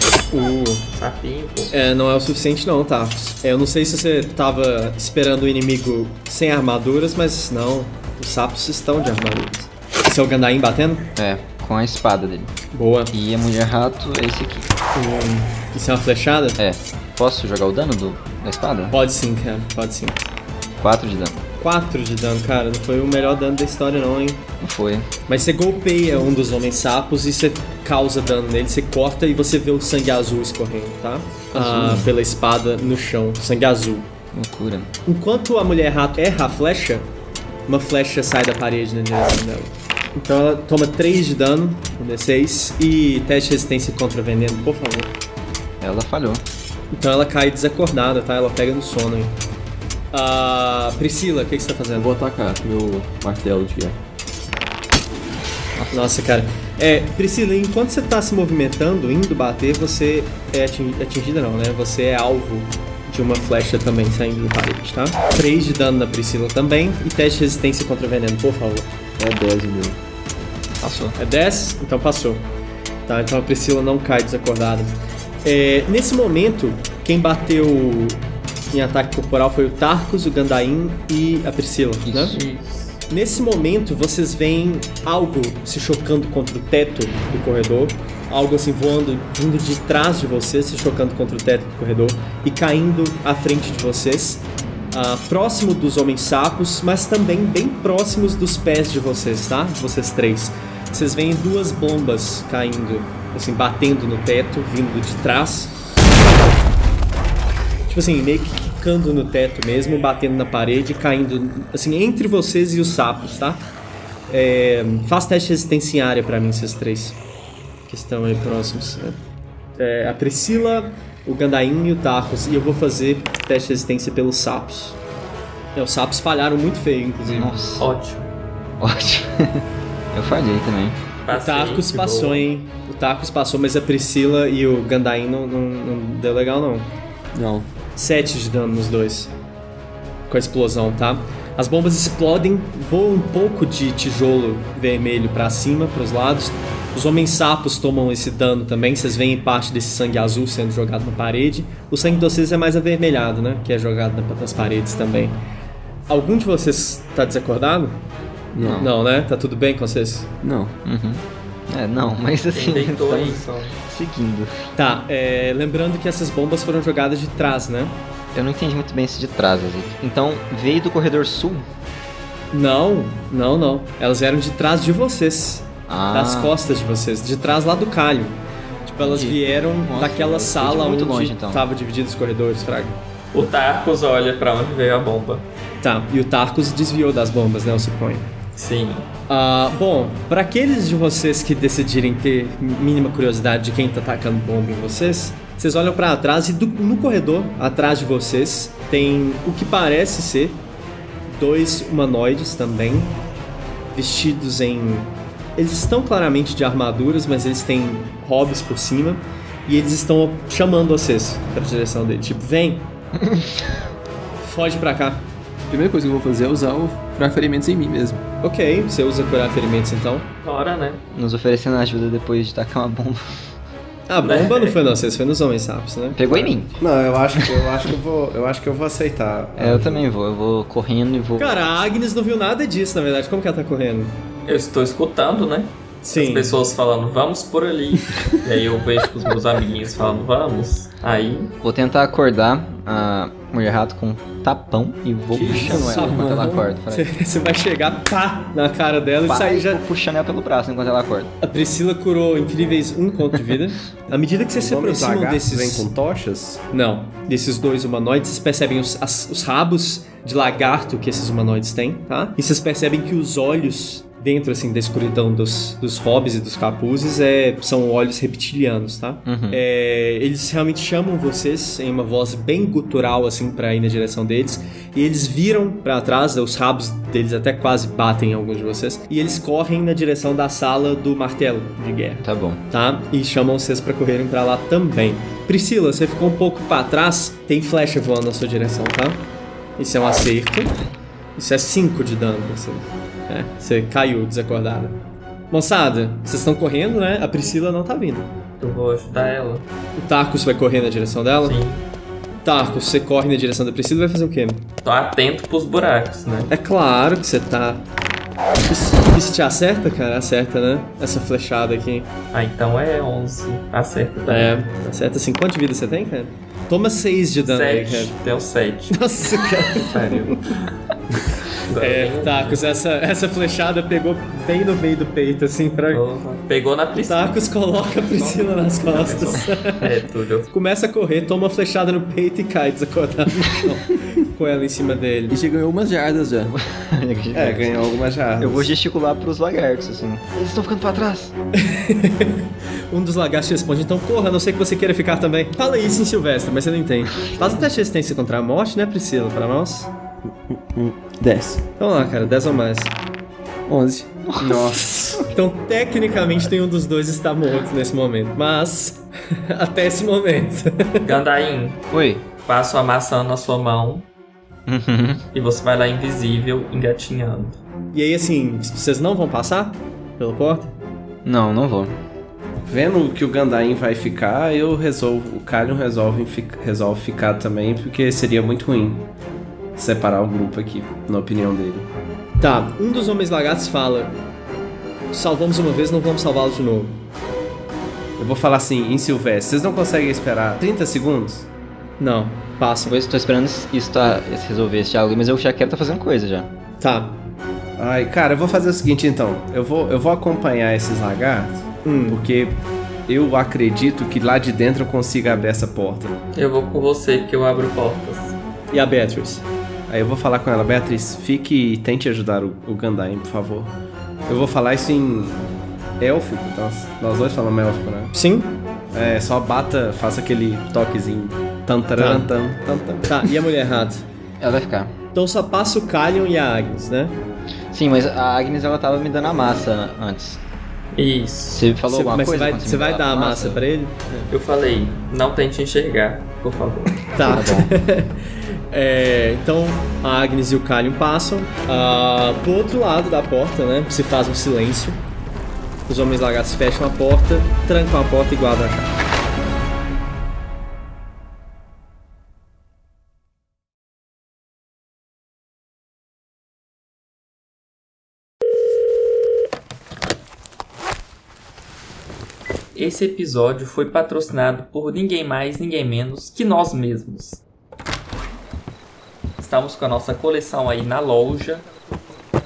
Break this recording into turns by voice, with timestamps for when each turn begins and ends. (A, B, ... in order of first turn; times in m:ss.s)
0:00.3-0:00.9 A
0:00.9-0:01.7 B
0:01.7-0:11.1 A
0:11.2-0:12.5 C
0:12.7-0:13.1 A
0:13.1-0:14.7 C
0:14.9-0:16.6 A
0:16.6-0:19.0 C
0:18.9-0:20.2 A
0:20.8-0:21.4 C
0:21.6-0:24.5 A
0:24.6-0:25.1 C
0:25.3-0:34.1 A
0:31.5-0:32.1 C
0:34.3-0:34.9 C
0:35.1-0:37.1 A
0:37.7-0:45.1 A
0:45.8-0:46.4 C
0:46.9-0:49.4 A
0:50.1-0:52.1 A
0:52.0-0:54.0 D
0:55.8-0:56.1 C
0:55.9-1:08.9 A
1:09.2-1:10.0 D
1:10.8-1:11.2 C
1:11.2-1:12.5 A
1:13.1-1:22.4 A
1:22.1-1:22.4 C
1:22.3-1:23.0 B
1:23.1-1:45.8 A
1:47.9-1:53.6 A
1:54.3-1:57.2 A
1:57.9-1:59.2 A
1:59.8-2:05.0 A
2:05.8-2:07.6 A
2:07.3-2:07.9 C
2:07.8-2:08.3 B
2:08.8-2:11.0 C
2:11.3-2:12.5 B
2:11.3-2:16.9 A
2:17.4-2:17.7 D
2:18.0-2:19.3 A
2:20.3-2:35.4 A
2:36.1-2:38.1 A
2:38.6-2:38.8 D
2:38.6-2:38.9 C
2:38.8-2:40.4 A
2:40.4-2:40.8 D
2:40.8-2:44.7 C
2:42.5-2:43.8 B
2:44.8-2:48.0 A
2:48.3-2:51.7 C
2:52.5-3:03.0 A
2:55.9-2:56.5 C
2:59.0-3:01.6 C
3:03.3-3:05.5 B
3:05.8-3:08.3 A
3:08.6-3:09.1 B
3:09.3-3:20.6 A
3:21.3-3:23.2 A
3:23.9-3:32.9 A
3:33.3-3:33.6 C
3:34.4-3:35.3 A
3:35.7-3:38.2 D
3:38.4-3:40.3 A
3:40.4-3:41.0 B
3:41.1-3:43.3 C
3:44.1-3:46.8 A
3:44.2-3:44.8 B
3:46.2-3:46.7 C
3:46.8-3:50.0 E
3:49.6-3:51.6 C
3:51.4-3:54.2 A
3:54.5-4:01.5 B
3:56.0-3:56.6 A
4:01.6-4:07.1 C
4:05.3-4:09.8 A
4:05.6-4:06.6 D
4:09.3-4:11.3 C
4:11.4-4:15.9 A
4:14.5-4:16.6 E
4:16.7-4:50.8 A
4:29.2-4:29.6 C
4:42.2-4:42.6 C
4:51.4-4:58.4 A
4:58.6-4:59.7 B
5:00.0-5:01.6 A
5:01.4-5:01.9 B
5:02.4-5:04.7 A
5:04.8-5:06.5 B
5:06.5-5:07.9 A
5:08.6-5:12.1 A
5:12.3-5:14.6 B
5:14.3-5:18.2 A
5:17.4-5:20.7 B
5:18.9-5:20.4 A
5:21.5-5:22.7 B
5:21.8-5:26.0 A
5:25.9-5:30.5 B
5:27.0-5:29.8 A
5:30.5-5:35.4 A
5:35.3-5:36.5 D
5:36.5-5:37.8 C
5:37.3-5:38.7 E
5:38.4-5:41.3 C
5:41.6-5:49.9 A
5:50.5-5:51.7 D
5:51.8-5:53.0 A
5:53.7-5:54.1 D
5:54.3-5:54.9 C
5:54.4-5:55.3 E
5:55.3-6:01.1 A
6:01.0-6:01.8 B
6:01.9-6:02.2 C
6:02.4-6:04.1 B
6:04.7-6:05.2 C
6:05.3-6:07.6 B
6:07.9-6:10.8 A
6:11.2-6:12.0 C
6:12.7-6:19.1 E
6:19.8-6:21.9 E
6:22.4-6:24.2 A
6:25.1-6:27.1 A
6:28.2-6:31.5 E
6:32.0-6:33.0 A
6:32.9-6:36.5 C
6:36.8-6:37.3 A
6:37.8-6:46.1 E
6:41.8-6:42.2 A
6:46.3-6:48.4 B
6:48.7-6:49.5 A
6:49.9-6:58.1 E
6:58.1-6:58.6 A
6:58.9-7:03.1 E
7:02.0-7:02.3 A
7:03.0-7:04.1 A
7:04.4-7:04.9 C
7:05.1-7:07.2 A
7:07.7-7:10.4 C
7:10.9-7:11.7 B
7:11.5-7:13.7 C
7:11.9-7:14.2 A
7:14.3-7:17.1 B
7:17.1-7:25.0 A
7:17.2-7:17.7 C
7:25.9-7:29.0 A
7:42.8-7:47.4 B
7:49.4-7:51.7 B